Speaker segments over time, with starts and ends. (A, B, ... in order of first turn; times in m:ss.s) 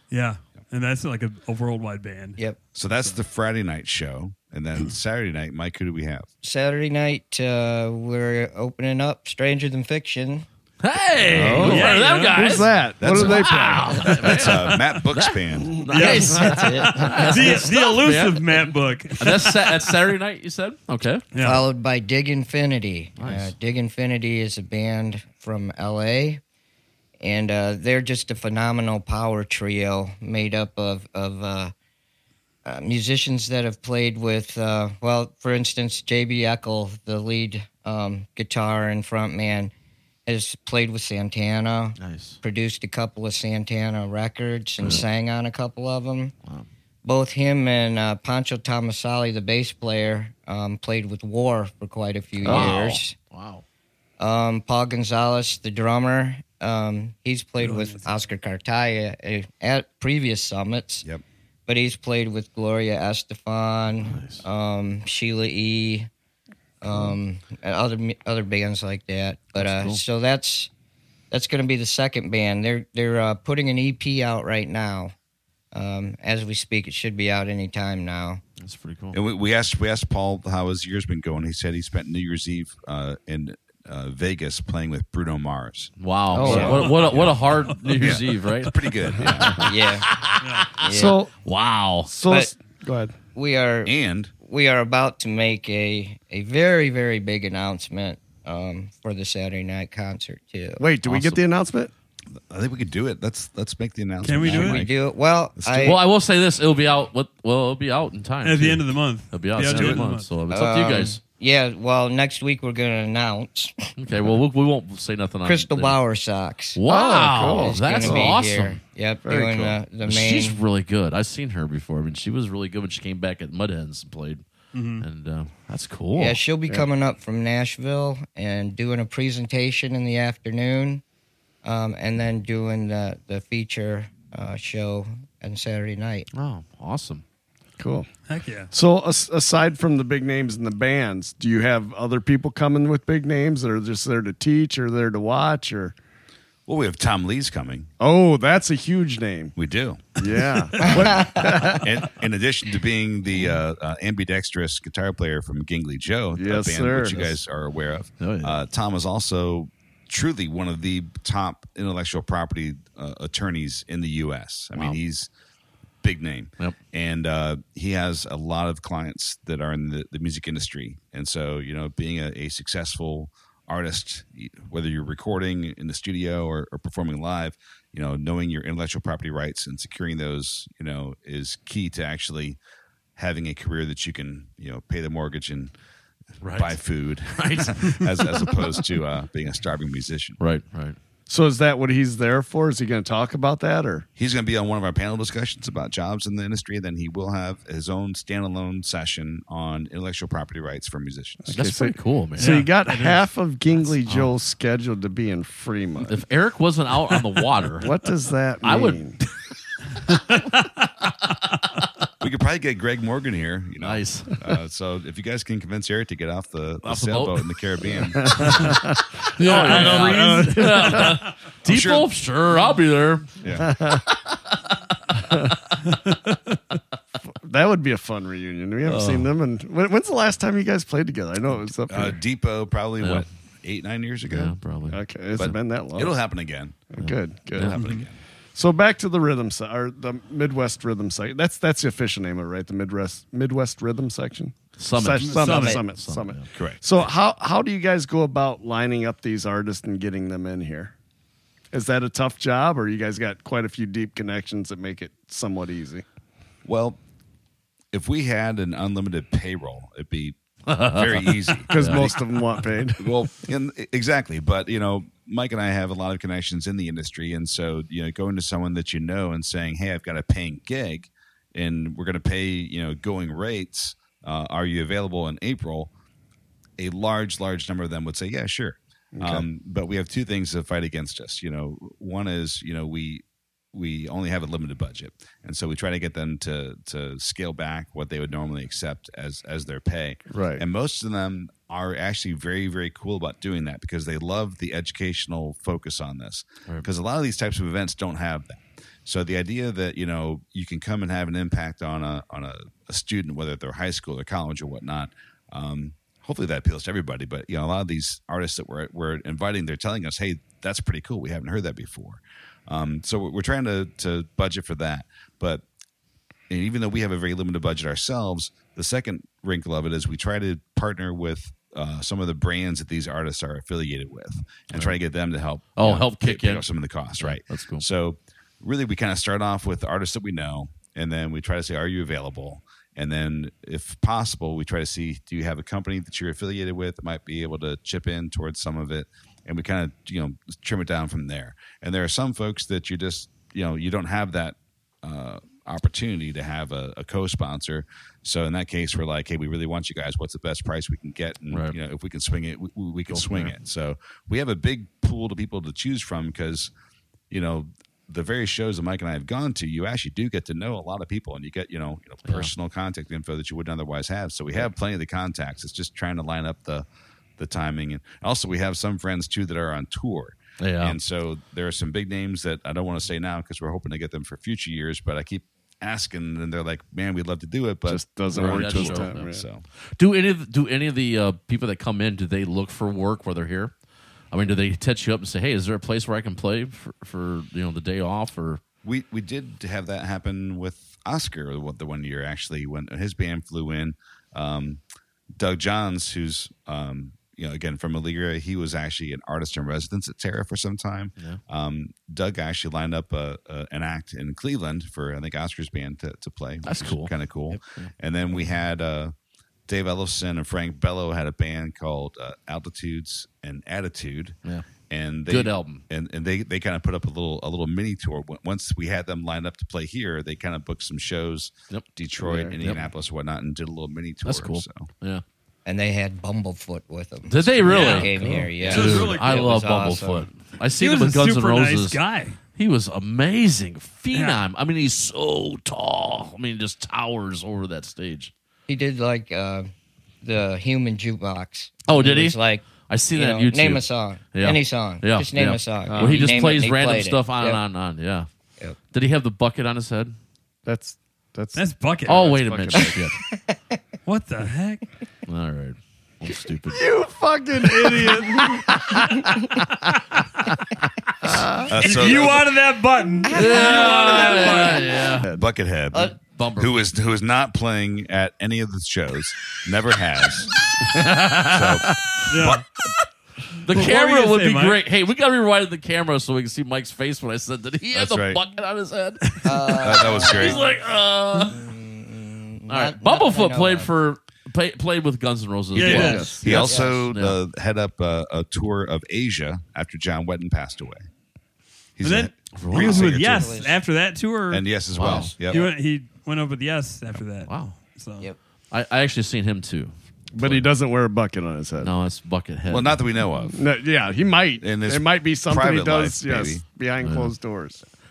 0:00.1-0:02.4 A
0:02.7-0:06.3 B
0:06.4-0:10.4 C
0:10.8-0:18.7 D
0:11.3-0:14.4 E
0:11.4-0:11.6 B
0:11.5-0:12.4 A
0:13.0-0:15.8 B
0:15.7-0:16.4 E
0:15.9-0:19.9 A
0:16.1-0:17.4 C
0:19.2-0:21.2 D
0:21.3-0:21.6 A
0:21.4-0:26.4 C
0:23.2-0:23.5 D
0:27.2-0:31.7 C
0:32.6-0:39.7 C
0:40.2-0:46.3 C
0:42.0-0:42.4 D
0:47.0-0:53.1 C
0:52.4-0:53.6 D
0:54.2-1:01.0 C
0:57.6-0:58.1 A
1:01.7-1:06.1 C
1:04.0-1:04.4 D
1:06.8-1:10.7 C
1:09.5-1:10.0 D
1:11.3-1:15.1 C
1:15.7-1:18.4 C
1:18.6-1:19.2 D
1:19.1-1:29.6 B
1:26.0-1:30.6 D
1:26.3-1:26.9 E
1:26.6-1:27.7 A
1:29.1-1:29.7 E
1:29.6-1:30.1 C
1:30.4-1:30.7 A
1:30.8-1:31.2 C
1:30.9-1:31.3 E
1:31.4-1:32.1 D
1:32.0-1:33.1 E
1:32.2-1:32.5 C
1:33.3-1:40.8 C
1:33.8-1:34.3 B
1:40.8-1:41.9 E
1:41.0-1:41.4 D
1:42.4-1:44.9 B
1:44.2-1:44.8 A
1:44.5-1:46.0 C
1:45.6-1:46.0 B
1:45.8-1:51.2 D
1:48.4-1:50.3 A
1:49.6-1:50.1 B
1:50.5-1:53.9 C
1:54.0-1:56.0 D
1:55.4-1:56.8 C
1:56.7-1:58.8 D
1:56.9-1:58.4 E
1:57.5-2:00.6 C
1:59.2-1:59.7 E
2:00.0-2:04.4 D
2:04.7-2:05.0 A
2:05.0-2:06.4 D
2:06.2-2:11.0 C
2:11.6-2:16.3 C
2:16.3-2:17.2 D
2:17.8-2:18.1 E
2:18.3-2:18.7 A
2:18.7-2:25.9 E
2:26.7-2:27.9 B
2:28.0-2:29.5 E
2:29.6-2:30.1 B
2:30.2-2:31.8 E
2:30.8-2:31.7 C
2:30.9-2:45.3 B
2:36.3-2:37.3 E
2:38.2-2:38.6 D
2:46.0-3:02.6 B
3:03.2-3:05.7 B
3:06.4-3:08.2 D
3:06.6-3:10.4 B
3:10.4-3:11.0 D
3:11.3-3:14.1 E
3:14.2-3:21.5 B
3:21.4-3:26.2 E
3:21.5-3:22.7 D
3:22.4-3:23.2 A
3:26.0-3:27.9 D
3:27.8-3:29.2 E
3:28.6-3:29.0 D
3:30.1-3:30.7 A
3:32.2-3:38.6 B
3:33.8-3:34.3 D
3:36.8-3:37.4 D
3:37.9-3:41.2 E
3:38.4-3:38.7 D
3:39.4-3:43.4 D
3:39.4-3:41.2 A
3:41.6-3:42.1 B
3:43.4-3:43.7 B
3:43.6-3:44.1 E
3:45.2-3:45.5 E
3:47.3-3:52.2 E
3:48.8-3:49.3 D
3:51.9-3:54.5 B
3:53.0-3:53.2 D
3:54.3-3:55.0 D
3:54.9-3:56.1 E
3:55.4-3:56.9 B
3:56.9-3:57.8 E
3:57.0-3:57.8 D
3:57.5-3:58.2 B
3:57.8-3:58.0 A
3:58.5-4:10.9 E
4:04.8-4:06.5 D
4:05.2-4:05.8 A
4:06.5-4:06.8 B
4:11.7-4:16.0 E
4:16.6-4:17.0 B
4:17.9-4:22.2 B
4:20.7-4:22.6 D
4:21.7-4:23.1 E
4:23.0-4:35.9 B
4:36.8-5:15.6 B
4:39.1-4:39.4 E
4:50.3-4:50.6 E
5:16.5-5:56.7 B
5:25.8-5:26.6 D
5:27.2-5:27.8 D
5:51.5-5:51.8 D
5:53.1-5:53.5 D
5:57.3-6:06.8 B
6:02.2-6:02.5 D
6:07.4-6:19.6 B
6:10.6-6:11.0 D
6:17.8-6:19.4 E
6:18.3-6:19.3 D
6:20.0-6:23.7 D
6:24.3-6:28.6 D
6:28.8-6:34.8 B
6:35.4-6:49.1 B
6:46.6-6:47.9 D
6:49.7-7:04.9 B
6:55.3-6:55.8 D
7:02.2-7:02.6 E
7:02.6-7:02.9 D
7:04.2-7:05.2 D
7:05.6-7:10.3 C
7:07.3-7:12.0 D
7:07.7-7:08.1 A
7:08.6-7:09.5 A
7:10.8-7:12.4 A
7:12.5-7:18.3 D
7:14.1-7:14.4 A
7:18.7-7:19.7 C
7:20.2-7:27.6 C
7:21.9-7:28.3 D
7:25.9-7:26.4 E
7:28.9-7:30.1 D
7:30.6-7:33.0 E
7:31.5-7:32.4 A
7:32.1-7:33.2 D
7:33.3-7:33.8 C
7:34.0-7:34.8 A
7:35.3-7:36.8 D
7:36.7-7:39.3 E
7:41.2-7:41.7 E
7:41.7-7:42.4 B
7:41.8-7:44.8 A
7:43.2-7:45.0 C
7:43.3-7:45.2 D
7:45.3-7:50.5 B
7:46.3-7:46.7 D
7:50.9-7:51.7 D
7:51.5-7:52.6 B
7:52.3-7:52.6 A
7:53.6-8:01.6 D
7:53.7-7:54.8 A
7:57.9-7:58.4 B
7:59.4-8:00.7 C
7:59.8-8:00.6 B
8:01.5-8:03.9 C
8:02.7-8:07.4 D
8:05.7-8:06.4 A
8:05.8-8:11.0 B
8:05.8-8:06.4 E
8:06.2-8:07.0 C
8:12.0-8:13.6 B
8:12.0-8:14.7 A
8:12.5-8:13.2 D
8:12.7-8:13.8 C
8:14.5-8:15.7 B
8:14.9-8:15.3 D
8:15.4-8:18.3 A
8:17.4-8:17.8 D
8:18.7-8:20.7 D
8:20.3-8:21.9 E
8:21.8-8:23.0 D
8:22.7-8:23.6 B
8:23.5-8:27.8 E
8:24.6-8:26.6 B
8:27.0-8:27.3 D